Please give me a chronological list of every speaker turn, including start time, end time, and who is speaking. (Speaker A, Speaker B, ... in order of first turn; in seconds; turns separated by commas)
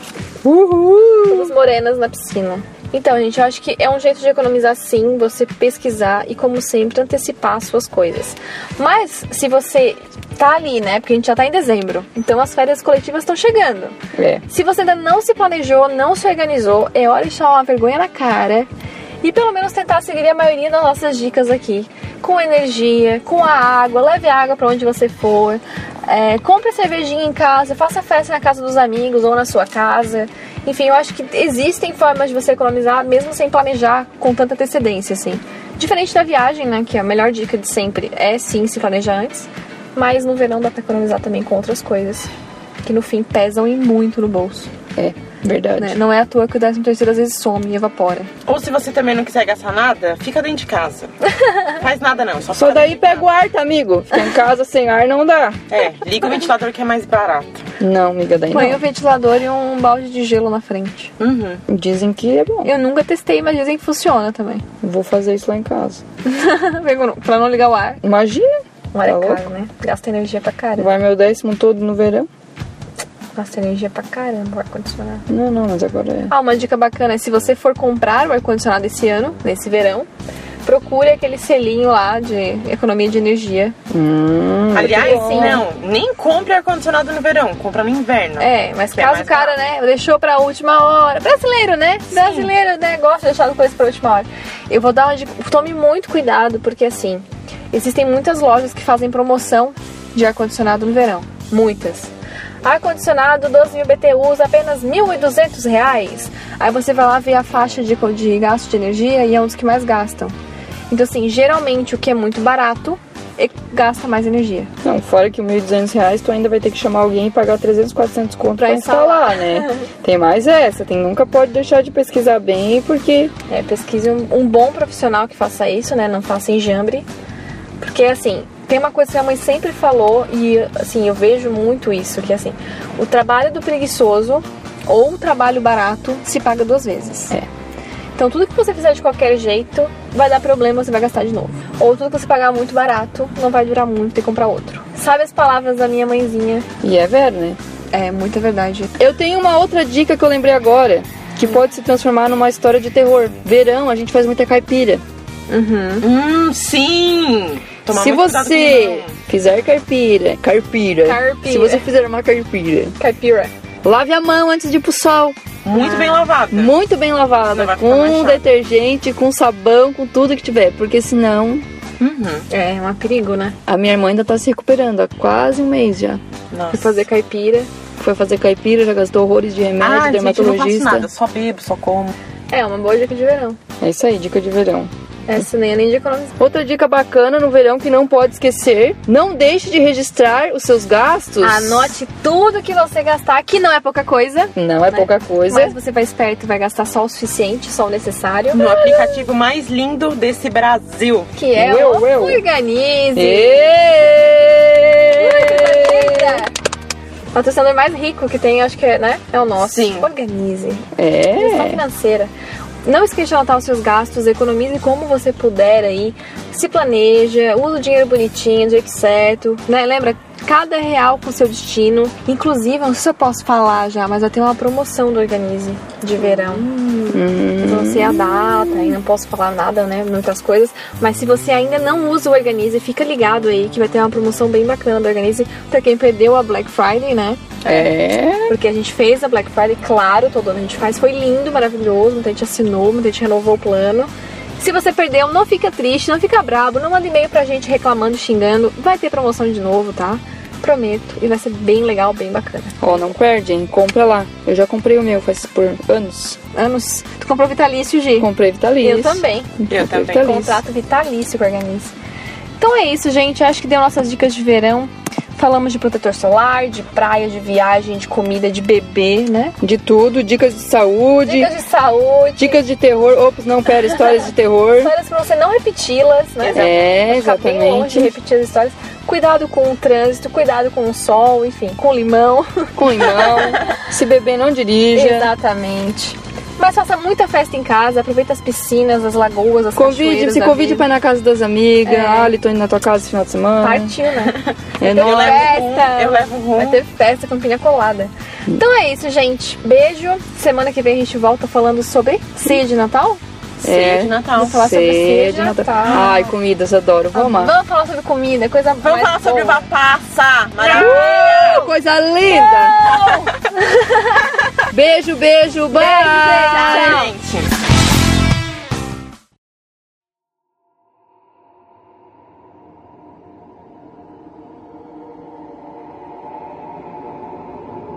Speaker A: 0.4-1.5, Speaker B: 1.3-13.9, Speaker A: 14.1-14.4, Speaker B: 14.5-18.7, Speaker B: 19.2-42.3, Speaker B: 42.8-44.7, Speaker A: 45.0-46.0, Speaker B: 45.8-48.3, Speaker C: 48.5-51.1, Speaker C: 51.7-53.3, Speaker A: 52.5-55.6, Speaker C: 55.7-57.6, Speaker A: 57.8-58.8, Speaker B: 58.5-61.1, Speaker C: 61.2-61.6, Speaker A: 61.7-62.7, Speaker B: 62.6-64.6, Speaker A: 64.8-66.0, Speaker B: 66.2-68.0, Speaker A: 68.0-69.4, Speaker B: 68.9-70.9, Speaker A: 70.8-72.3, Speaker B: 73.3-75.2, Speaker A: 75.3-76.3, Speaker B: 76.3-80.1, Speaker B: 80.6-83.8, Speaker A: 83.9-85.6, Speaker C: 84.7-89.5, Speaker B: 84.9-85.6, Speaker B: 88.4-102.1, Speaker C: 92.1-92.5, Speaker B: 102.6-110.3, Speaker B: 110.9-114.7, Speaker A: 114.8-123.3, Speaker B: 118.5-119.8, Speaker B: 123.5-127.0, Speaker B: 127.8-137.3, Speaker B: 138.2-146.7, Speaker A: 146.8-147.6, Speaker B: 147.9-149.0, Speaker A: 149.0-155.0, Speaker B: 155.5-156.1, Speaker C: 156.0-159.1, Speaker A: 157.9-162.9, Speaker B: 161.0-161.8, Speaker B: 163.0-163.5, Speaker A: 163.8-165.4, Speaker C: 165.6-166.7, Speaker B: 165.7-166.3, Speaker A: 166.5-171.7, Speaker C: 167.5-168.4, Speaker C: 172.0-172.5, Speaker B: 172.5-173.6, Speaker A: 173.7-176.2, Speaker C: 176.5-177.0, Speaker B: 176.7-177.7, Speaker A: 178.0-181.1, Speaker C: 179.8-182.1, Speaker B: 182.5-183.6, Speaker A: 183.8-184.9, Speaker B: 185.3-186.3, Speaker A: 186.4-192.0, Speaker B: 191.4-199.2, Speaker A: 194.6-195.7, Speaker C: 198.5-201.3, Speaker B: 201.3-204.0, Speaker A: 201.5-202.4, Speaker A: 203.1-206.4, Speaker B: 205.1-206.5, Speaker B: 207.3-212.3, Speaker C: 209.6-210.1, Speaker A: 210.9-211.8, Speaker B: 212.8-237.9, Speaker A: 227.1-228.9, Speaker A: 237.6-238.6, Speaker B: 238.5-252.9, Speaker A: 252.8-256.4, Speaker B: 256.5-258.3, Speaker A: 258.2-260.6, Speaker B: 258.8-259.6, Speaker C: 259.7-260.4, Speaker B: 260.1-261.9, Speaker B: 262.6-269.6, Speaker A: 269.6-271.5, Speaker B: 271.2-272.6, Speaker A: 272.4-274.9, Speaker B: 274.8-283.4, Speaker C: 276.4-276.7, Speaker A: 276.5-278.1, Speaker A: 282.8-285.3, Speaker B: 284.9-290.9, Speaker A: 289.8-293.9, Speaker B: 291.9-292.4, Speaker B: 293.6-303.2, Speaker C: 294.2-296.8, Speaker A: 294.8-295.5, Speaker C: 303.6-304.6, Speaker A: 303.6-307.5, Speaker B: 304.3-306.3, Speaker B: 307.1-309.6, Speaker C: 308.8-311.7, Speaker B: 310.6-311.0, Speaker A: 310.7-312.9, Speaker B: 312.3-314.2, Speaker C: 312.9-313.3, Speaker A: 314.7-317.0, Speaker B: 315.7-317.1, Speaker C: 316.5-317.5